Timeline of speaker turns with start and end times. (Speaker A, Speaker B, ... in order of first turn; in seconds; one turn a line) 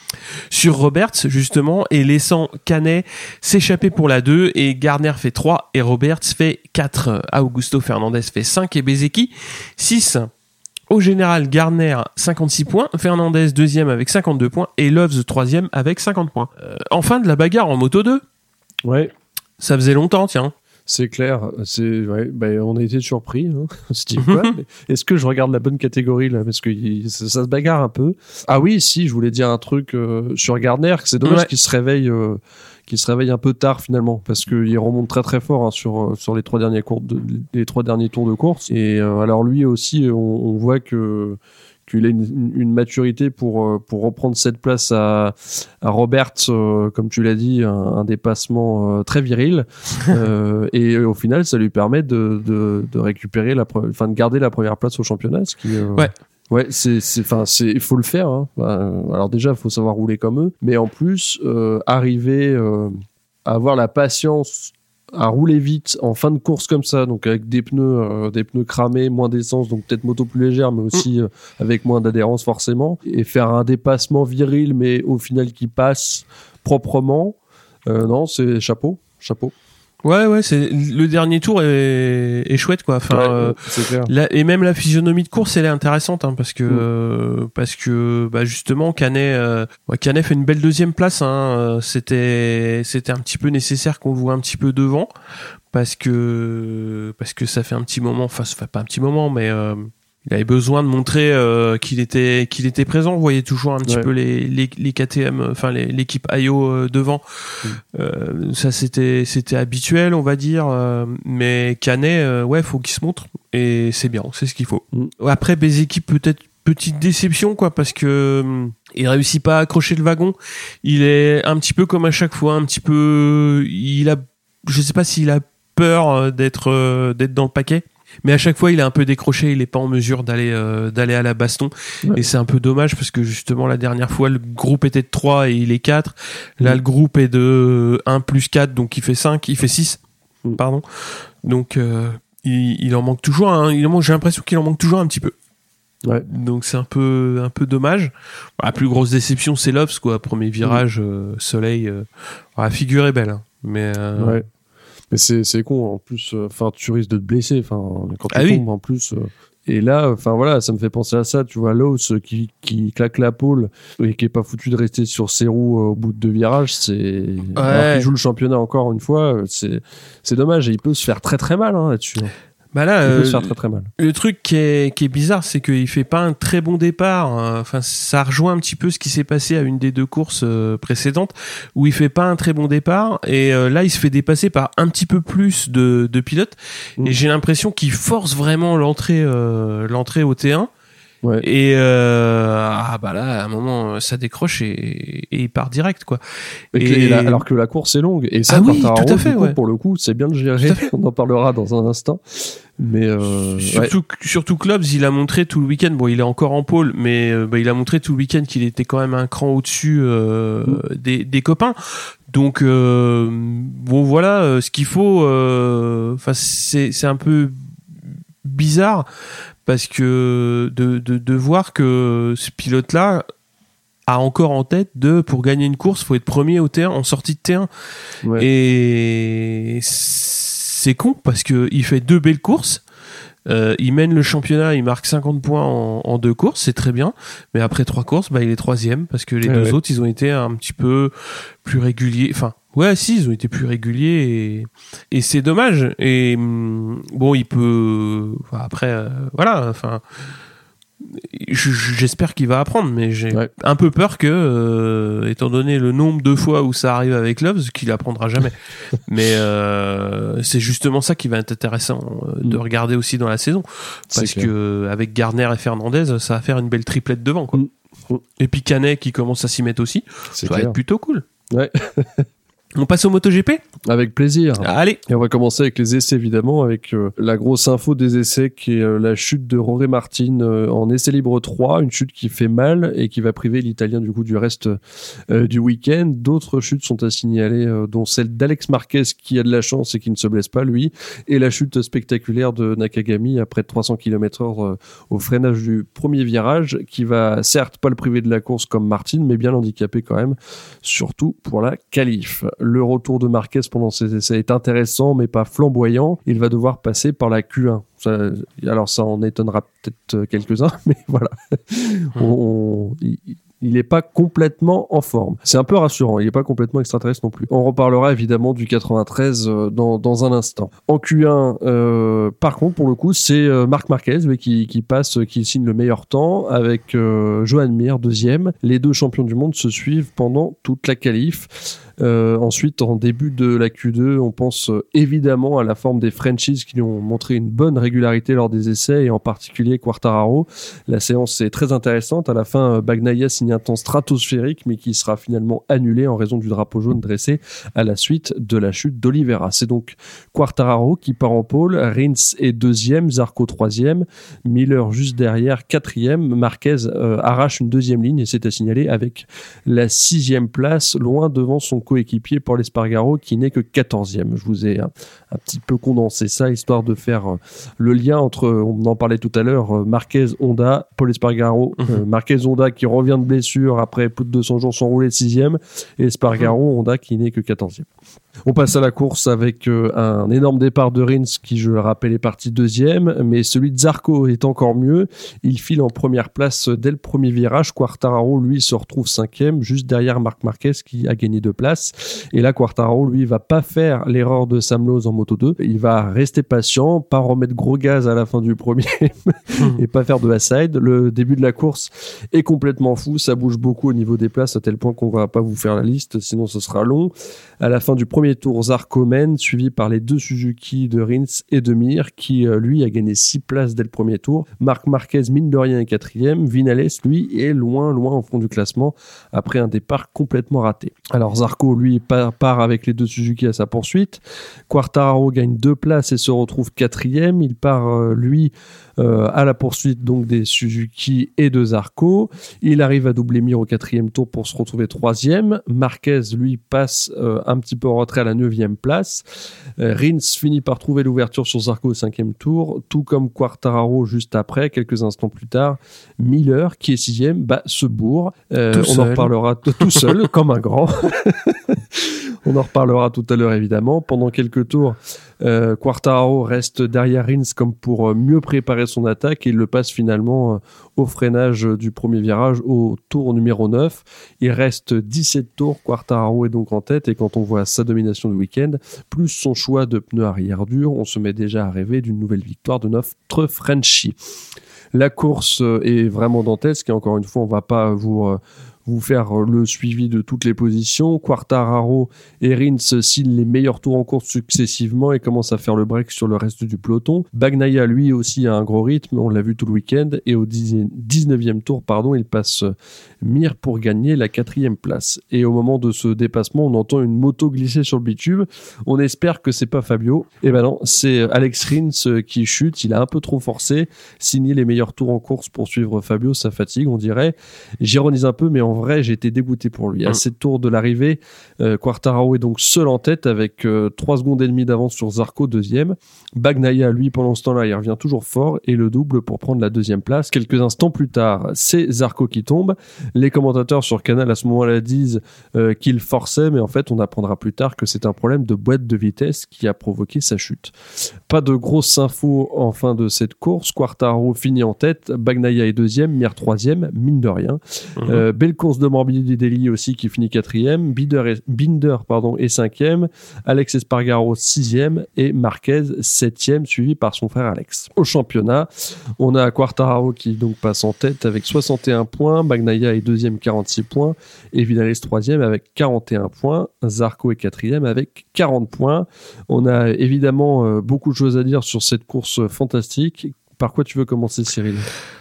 Speaker A: 0.5-10.3
Speaker A: 10.9-18.2
Speaker B: 18.8-19.1
Speaker A: 19.6-20.5
Speaker B: 20.9-62.9
Speaker A: 24.2-24.5
Speaker A: 31.2-31.5
Speaker B: 63.4-79.5
Speaker A: 80.0-95.1
Speaker B: 83.1-84.1
Speaker A: 95.7-107.2
Speaker A: 107.9-140.0
Speaker A: 140.6-145.3
Speaker A: 146.2-152.0
Speaker A: 152.6-154.4
Speaker B: 154.2-154.4
Speaker B: 155.1-172.3
Speaker A: 158.3-158.6
Speaker A: 167.5-168.1
Speaker A: 172.7-190.7
Speaker B: 173.0-173.9
Speaker A: 191.4-196.2
Speaker B: 196.7-203.9
Speaker A: 196.7-197.4
Speaker A: 198.5-199.6
Speaker A: 200.6-200.9
Speaker A: 203.6-211.8
Speaker A: 212.3-217.6
Speaker A: 218.4-219.1
Speaker A: 219.7-223.2
Speaker A: 224.1-227.7
Speaker A: 228.3-232.8
Speaker A: 233.4-241.1
Speaker B: 239.4-239.8
Speaker A: 241.6-250.0
Speaker A: 251.0-267.6
Speaker B: 264.1-264.5
Speaker B: 267.5-268.2
Speaker A: 268.4-271.2
Speaker B: 270.3-270.8
Speaker B: 271.5-272.3
Speaker A: 272.8-273.6
Speaker B: 273.8-377.9
Speaker A: 274.6-275.0
Speaker B: 378.4-439.2
Speaker B: 439.8-474.1
Speaker A: 448.7-450.1
Speaker B: 474.9-564.9
Speaker A: 538.0-538.2